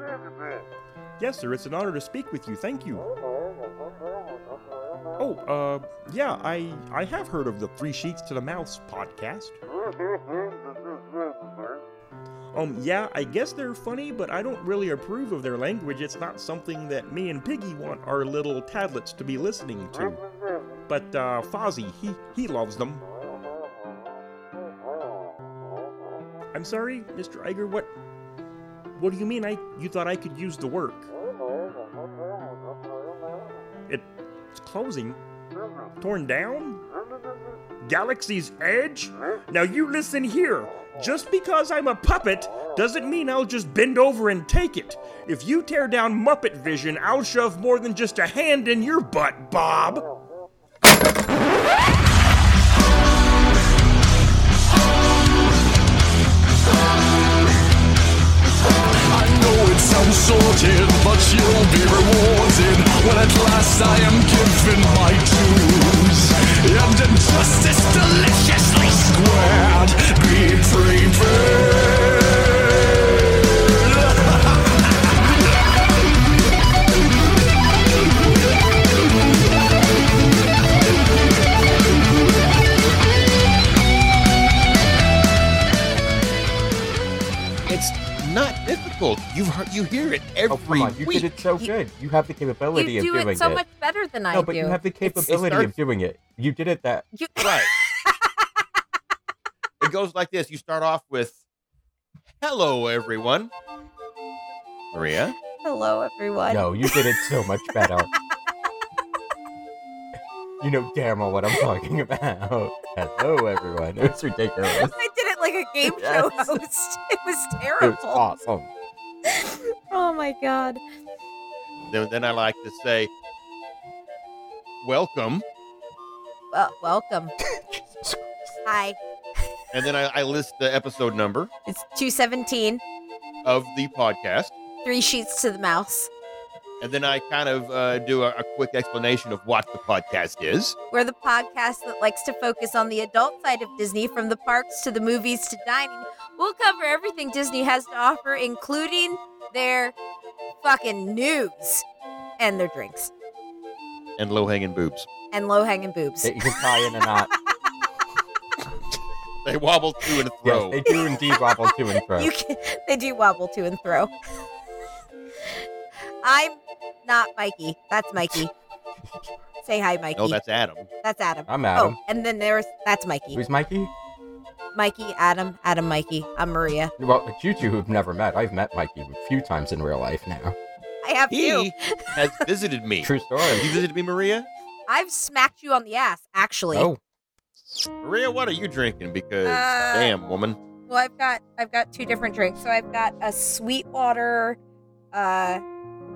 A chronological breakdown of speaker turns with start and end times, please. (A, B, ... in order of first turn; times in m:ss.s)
0:01.2-0:03.1 A
0:05.2-0:09.6 A
0:12.5-0:20.2 A
0:20.9-0:23.0 A
0:26.5-0:27.9 A
0:29.0-0:31.1 A
0:33.9-0:35.2 A
0:36.0-0:36.8 A
0:37.8-0:50.1 A
0:59.1-1:14.5 B
1:27.7-1:31.0 C
1:30.5-1:33.6 D
1:31.1-1:31.7 E
1:32.7-1:35.3 E
1:34.3-1:37.1 D
1:35.2-1:35.7 C
1:37.2-1:38.3 E
1:37.4-1:37.7 C
1:39.8-1:41.4 C
1:42.4-1:43.5 C
1:44.9-1:45.3 C
1:45.6-1:47.1 E
1:46.5-1:48.1 D
1:50.6-1:54.9 D
1:54.8-1:58.2 E
1:55.8-1:56.6 D
1:57.8-1:58.7 D
1:59.2-2:00.8 E
2:01.9-2:03.1 C
2:04.8-2:05.4 C
2:06.5-2:07.3 E
2:07.5-2:08.6 D
2:08.6-2:09.0 E
2:09.7-2:11.5 C
2:11.7-2:12.8 E
2:13.4-2:14.6 C
2:14.8-2:16.1 E
2:16.8-2:20.8 C
2:20.9-2:29.9 E
2:30.6-2:31.8 E
2:32.4-2:33.1 E
2:34.2-2:35.1 C
2:35.3-2:37.0 E
2:36.2-2:37.3 D
2:39.4-2:40.8 C
2:40.4-2:42.3 D
2:40.9-2:44.1 E
2:46.2-2:48.5 E
2:49.6-2:50.4 E
2:50.2-2:50.9 C
2:51.0-2:53.4 E
2:51.5-2:52.0 D
2:53.3-2:53.9 D
2:54.7-2:56.9 E
2:57.0-3:00.6 D
3:01.0-3:02.2 E
3:01.3-3:04.5 C
3:03.0-3:03.7 D
3:04.9-3:06.9 E
3:06.7-3:07.0 D
3:08.0-3:10.6 C
3:09.4-3:10.1 E
3:10.9-3:14.6 E
3:15.1-3:15.6 E